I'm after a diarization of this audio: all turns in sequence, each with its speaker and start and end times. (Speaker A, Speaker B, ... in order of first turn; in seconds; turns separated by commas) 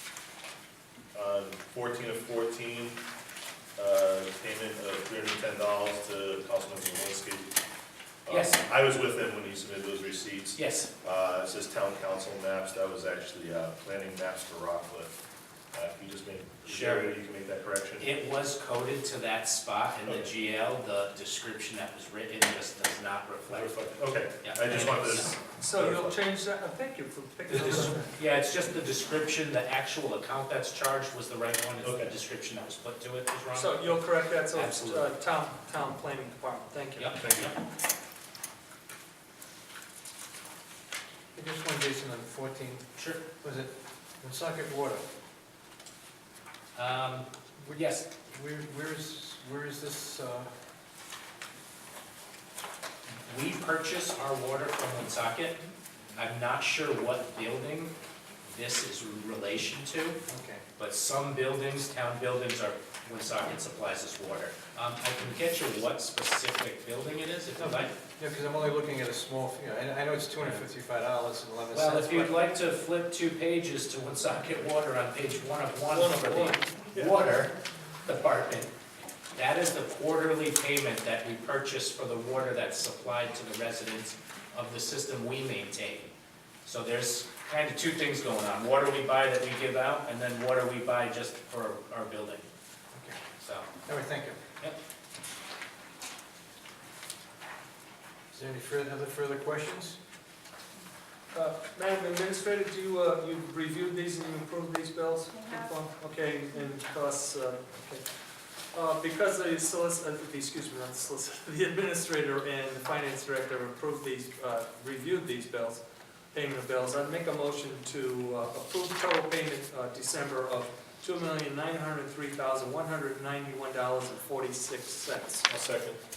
Speaker A: 1.1-3.0, Speaker A: 3.8-7.5, Speaker A: 8.2-15.1, Speaker B: 8.3-8.6, Speaker B: 10.5-10.9, Speaker A: 15.7-18.1, Speaker B: 16.6-17.1, Speaker B: 18.0-23.9, Speaker A: 20.0-20.3, Speaker A: 23.5-26.2, Speaker B: 24.4-25.4, Speaker C: 25.5-28.1, Speaker B: 28.1-35.1, Speaker A: 31.8-32.1, Speaker C: 33.5-37.3, Speaker B: 37.0-37.6, Speaker A: 37.1-37.5, Speaker D: 41.3-45.0, Speaker B: 43.0-43.2, Speaker B: 46.7-48.1, Speaker D: 47.6-50.5, Speaker B: 53.2-55.6, Speaker B: 56.1-60.2, Speaker D: 60.3-60.6, Speaker B: 60.8-67.9, Speaker D: 67.6-72.4, Speaker B: 71.7-78.7, Speaker C: 75.8-77.2, Speaker B: 79.3-86.1, Speaker B: 86.6-92.5, Speaker D: 92.9-93.2, Speaker B: 93.4-93.7, Speaker D: 93.8-94.4, Speaker D: 98.3-100.0, Speaker C: 101.3-125.5, Speaker A: 125.5-126.0